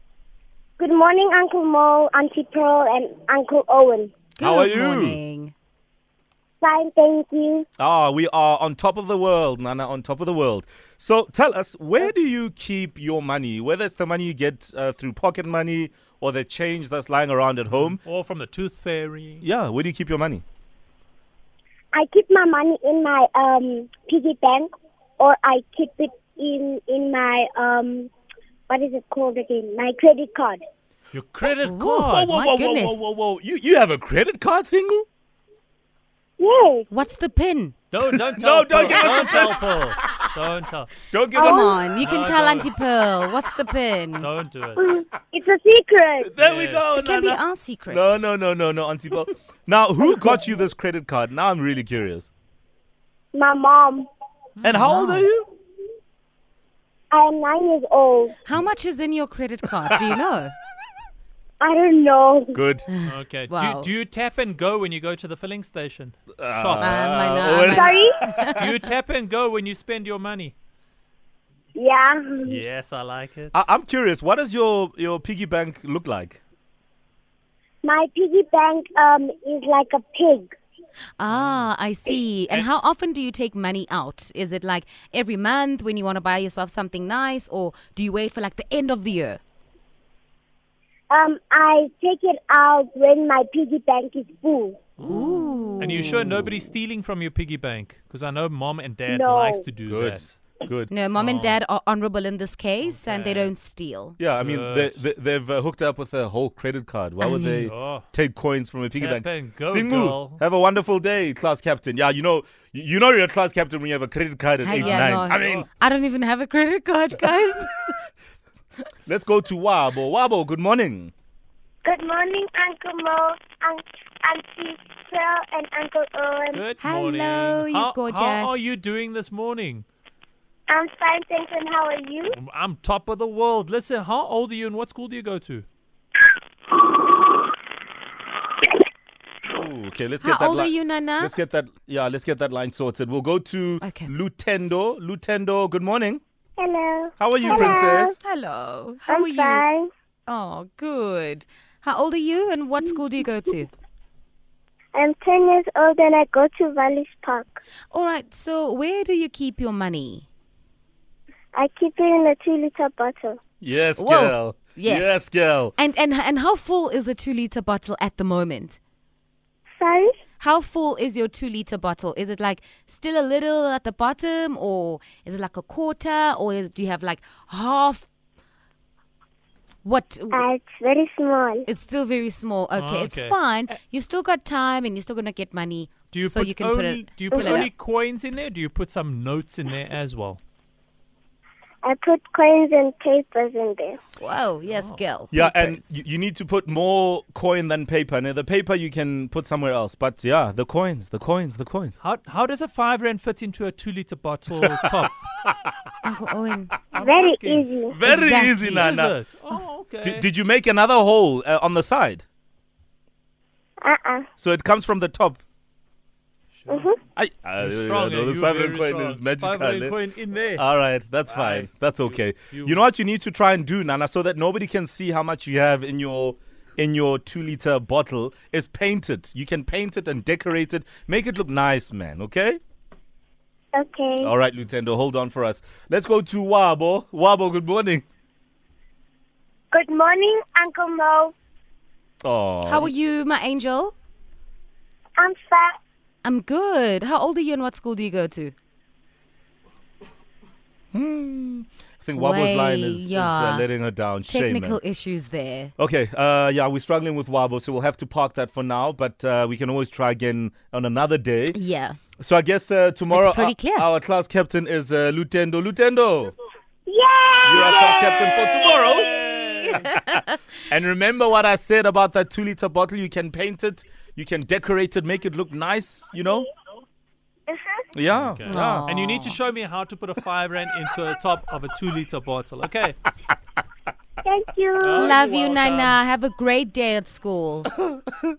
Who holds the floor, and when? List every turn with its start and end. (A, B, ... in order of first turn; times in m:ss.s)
0:00.8-0:04.1 A
0:04.4-0:05.5 B
0:04.4-0:05.2 C
0:06.6-0:07.7 A
0:07.8-0:18.0 C
0:17.7-0:19.4 D
0:19.4-0:20.4 C
0:21.9-0:28.1 A
0:28.7-0:30.6 A
0:31.1-0:32.2 D
0:31.6-0:33.0 B
0:31.8-0:35.0 C
0:36.4-0:36.9 A
0:36.9-0:37.8 B
0:37.9-0:40.9 D
0:38.1-0:39.8 C
0:41.1-0:41.9 C
0:41.3-0:41.8 A
0:41.4-0:44.3 B
0:42.0-0:42.7 D
0:44.2-0:44.9 D
0:44.8-0:46.3 A
0:46.2-0:52.3 C
0:46.4-0:46.9 D
0:46.9-0:48.3 B
0:53.3-0:54.1 A
0:54.6-0:55.2 D
0:54.6-0:55.5 C
0:57.1-0:58.4 A
0:58.4-1:00.5 B
1:01.6-1:02.6 A
1:02.5-1:02.9 C
1:02.9-1:03.9 B
1:03.0-1:07.0 D
1:06.4-1:08.5 C
1:06.8-1:08.7 B
1:07.7-1:08.2 A
1:08.6-1:10.5 D
1:11.7-1:12.6 A
1:12.4-1:13.6 D
1:13.5-1:16.4 C
1:17.8-1:20.5 A
1:21.2-1:29.4 B
1:21.3-1:21.7 D
1:31.1-1:34.8 A
1:35.0-1:40.4 D
1:35.1-1:36.1 B
1:39.1-1:39.6 A
1:39.9-1:40.9 C
1:40.9-1:44.2 B
1:41.1-1:41.6 D
1:42.8-1:43.5 D
1:44.2-1:55.7 C
1:44.4-1:45.0 D
1:47.2-1:47.7 B
1:47.7-1:48.1 D
1:48.9-1:50.4 D
1:54.6-1:58.0 B
1:54.7-1:55.7 D
1:59.0-2:01.1 C
2:01.8-2:06.6 A
2:06.5-2:09.8 D
2:06.8-2:08.6 B
2:10.7-2:12.4 A
2:12.3-2:15.6 D
2:19.5-2:26.2 C
2:20.2-2:21.3 B
2:23.8-2:24.1 B
2:26.6-2:28.2 A
2:27.2-2:28.2 C
2:27.4-2:29.6 B
2:29.1-2:29.9 A
2:30.3-2:33.7 B
2:34.9-2:37.6 A
2:37.9-2:40.2 B
2:41.5-2:43.4 A
2:43.6-2:45.7 C
2:44.0-2:45.2 B
2:45.8-2:48.8 B
2:49.8-2:50.2 A
2:50.4-2:58.1 B
2:59.8-3:00.5 B
3:00.3-3:01.7 A
3:01.7-3:07.7 B
3:02.7-3:03.4 D
3:06.1-3:10.4 D
3:07.3-3:07.7 A
3:11.8-3:14.0 A
3:14.2-3:15.8 B
3:14.7-3:15.0 D
3:15.3-3:21.9 C
3:22.0-3:25.2 D
3:26.0-3:26.8 B
3:26.9-3:27.7 D
3:27.0-3:28.0 A
3:27.9-3:29.2 C
3:28.0-3:29.0 B
3:28.7-3:30.2 D
3:30.0-3:32.2 C
3:33.8-3:34.3 A
3:34.4-3:35.4 C
3:36.6-3:36.9 D
3:36.7-3:37.0 A
3:37.2-3:40.0 C
3:37.6-3:40.6 D
3:40.5-3:52.6 C
3:41.3-3:41.7 D
3:42.4-3:42.8 D
3:53.7-3:54.3 A
3:54.2-3:58.0 C
3:59.7-4:01.3 A
4:02.2-4:02.9 C
4:02.6-4:03.9 B
4:05.2-4:05.8 A
4:06.2-4:08.5 B
4:10.9-4:14.8 C
4:12.2-4:13.7 B
4:14.2-4:15.7 B
4:15.8-4:21.6 C
4:21.5-4:22.0 B
4:22.2-4:26.3 C
4:23.1-4:23.9 B
4:26.9-4:29.2 A
4:27.4-4:36.5 C
4:29.0-4:30.4 B
4:37.9-4:38.9 C
4:38.1-4:43.0 D
4:38.5-4:39.4 B
4:44.2-4:45.2 A
4:44.8-4:46.0 D
4:44.9-4:47.7 B